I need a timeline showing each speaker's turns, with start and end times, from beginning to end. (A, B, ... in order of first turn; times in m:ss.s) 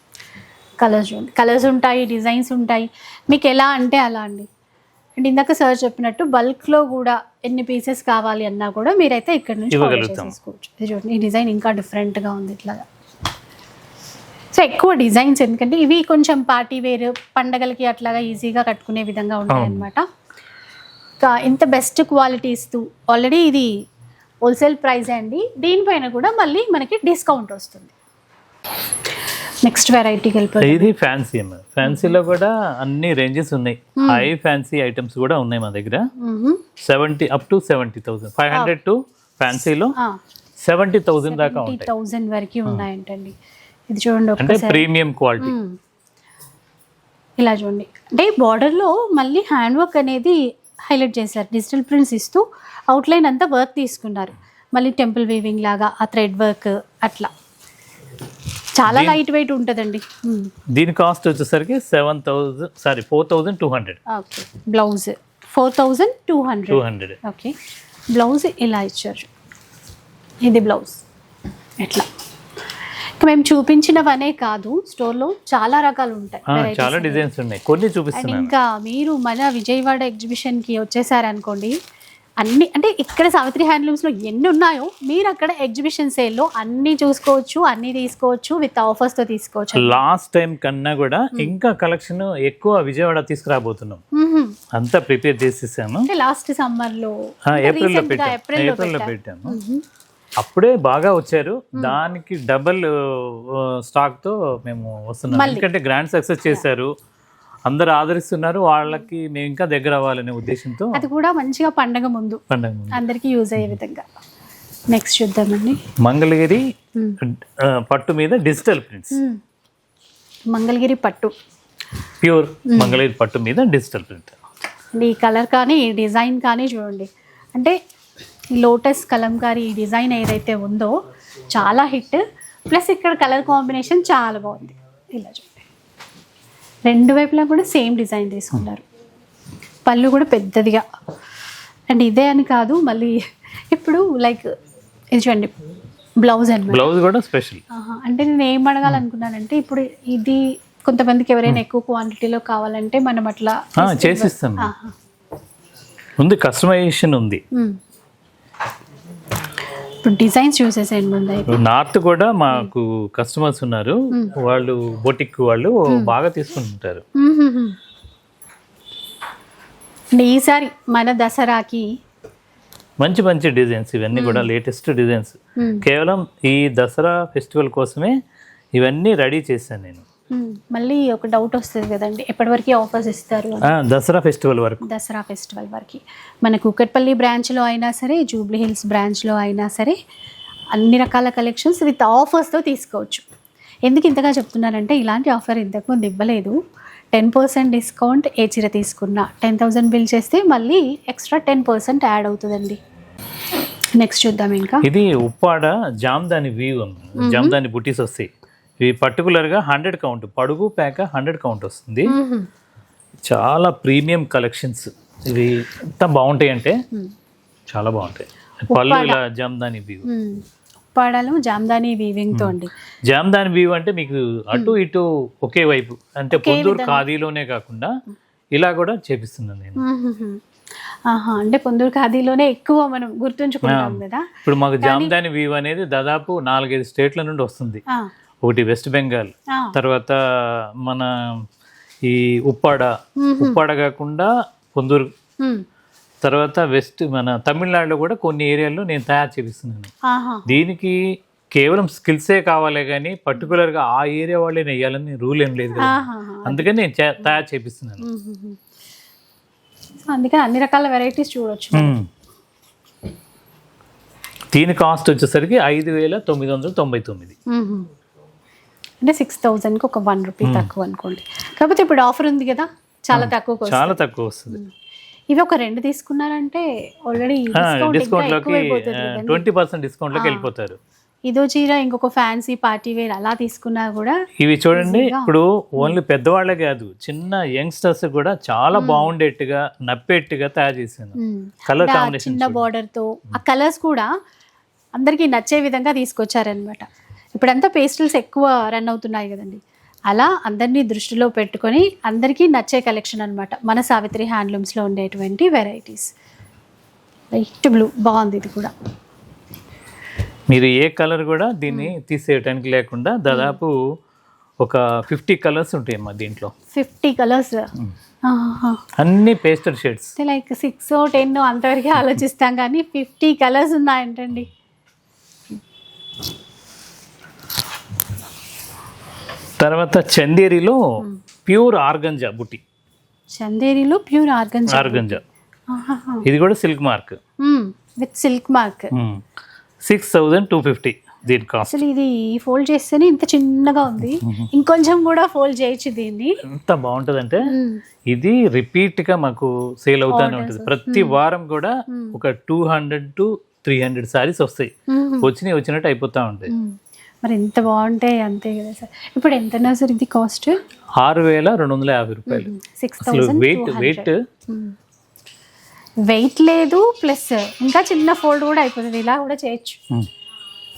0:00.8-0:04.5 A
0:05.2-0:12.9 A
0:09.7-0:10.3 B
0:14.5-0:20.0 A
0:19.5-0:19.9 B
0:21.2-0:23.7 A
0:24.4-0:27.9 A
0:29.6-0:30.9 A
0:30.6-0:36.0 B
0:31.8-0:32.2 A
0:34.0-0:34.3 A
0:36.2-0:36.6 A
0:36.8-0:39.9 B
0:40.6-0:41.9 B
0:41.3-0:43.3 A
0:43.9-0:44.8 A
0:44.4-0:45.6 B
0:45.4-0:45.8 A
0:47.4-0:57.3 A
0:58.8-1:00.5 A
0:58.8-0:59.2 B
1:00.7-1:04.0 B
1:04.1-1:07.5 A
1:06.7-1:07.2 B
1:08.1-1:09.3 A
1:10.4-1:11.0 A
1:13.2-1:17.2 A
1:16.5-1:18.5 B
1:18.1-1:21.7 A
1:22.4-1:30.0 A
1:29.7-1:34.0 B
1:34.1-1:34.6 A
1:34.7-1:36.1 B
1:36.1-1:39.8 A
1:37.5-1:39.6 B
1:40.4-1:46.9 B
1:41.7-1:42.0 A
1:45.3-1:45.6 A
1:47.6-1:51.0 B
1:50.9-1:54.0 A
1:52.5-1:53.0 B
1:54.9-1:55.8 A
1:56.0-1:56.6 B
1:57.2-1:59.1 B
1:59.1-1:59.4 A
2:00.5-2:01.3 A
2:02.2-2:04.4 B
2:02.7-2:03.0 A
2:05.0-2:07.7 A
2:08.6-2:10.9 A
2:11.5-2:15.6 A
2:16.9-2:18.8 A
2:19.8-2:20.8 A
2:21.9-2:23.1 A
2:23.7-2:24.5 A
2:25.1-2:25.5 A
2:26.2-2:26.9 A
2:26.7-2:27.6 B
2:27.7-2:34.9 A
2:33.8-2:34.7 B
2:36.2-2:37.4 B
2:40.0-2:41.6 A
2:41.5-2:47.0 B
2:47.2-2:47.8 A
2:50.2-2:51.8 A
2:53.0-2:58.1 B
2:54.1-2:54.5 A
2:55.6-2:55.8 A
2:58.8-3:00.0 B
3:00.3-3:03.7 A
3:03.6-3:04.8 B
3:04.8-3:10.0 A
3:10.7-3:13.2 A
3:13.9-3:16.5 A
3:17.1-3:22.8 A
3:24.0-3:24.8 A
3:24.8-3:28.3 B
3:27.2-3:27.6 A
3:28.8-3:32.1 B
3:32.1-3:32.5 A
3:33.2-3:36.8 B
3:37.7-3:40.0 B
3:38.7-3:39.2 A
3:40.0-3:40.4 A
3:40.9-3:42.7 A
3:43.1-3:47.9 B
3:46.3-3:47.0 A
3:48.5-3:49.8 B
3:49.8-3:50.4 A
3:51.1-3:55.1 A
3:53.6-3:57.8 B
3:58.4-4:01.4 B
4:02.0-4:05.1 B
4:03.2-4:03.6 A
4:06.2-4:09.9 B
4:10.1-4:10.5 A
4:10.5-4:11.0 B
4:11.5-4:18.0 B
4:15.8-4:17.4 A
4:18.0-4:18.6 A
4:20.1-4:22.0 A
4:21.7-4:22.0 B
4:24.5-4:27.3 B
4:27.5-4:27.9 A
4:29.0-4:34.7 A
4:30.4-4:30.7 B
4:33.1-4:34.6 B
4:35.3-4:39.4 A
4:37.6-4:40.8 B
4:40.1-4:40.5 A
4:41.3-4:44.1 A
4:44.4-4:51.2 B
4:44.7-4:46.0 A
4:48.7-4:49.1 A
4:51.2-4:54.1 A
4:51.7-4:52.6 B
4:55.0-5:06.1 A
5:07.3-5:08.7 A
5:10.5-5:13.7 B
5:13.3-5:13.6 A
5:14.6-5:16.5 B
5:16.7-5:17.7 A
5:18.2-5:18.8 A
5:19.0-5:20.1 B
5:20.2-5:24.5 A
5:29.6-5:30.8 B
5:31.4-5:32.6 B
5:33.4-5:35.2 A
5:34.7-5:35.2 B
5:35.7-5:36.2 A
5:36.2-5:37.2 B
5:37.4-5:38.9 A
5:38.9-5:39.2 B
5:39.8-5:41.8 B
5:41.6-5:46.4 A
5:44.2-5:44.5 B
5:46.5-5:47.5 B
5:47.4-5:47.8 A
5:48.1-5:54.7 B
5:50.1-5:51.2 A
5:51.9-5:52.2 A
5:54.9-5:55.3 A
5:55.2-5:56.5 B
5:56.5-6:00.6 A
6:01.0-6:04.1 B
6:02.3-6:04.7 A
6:06.0-6:09.8 A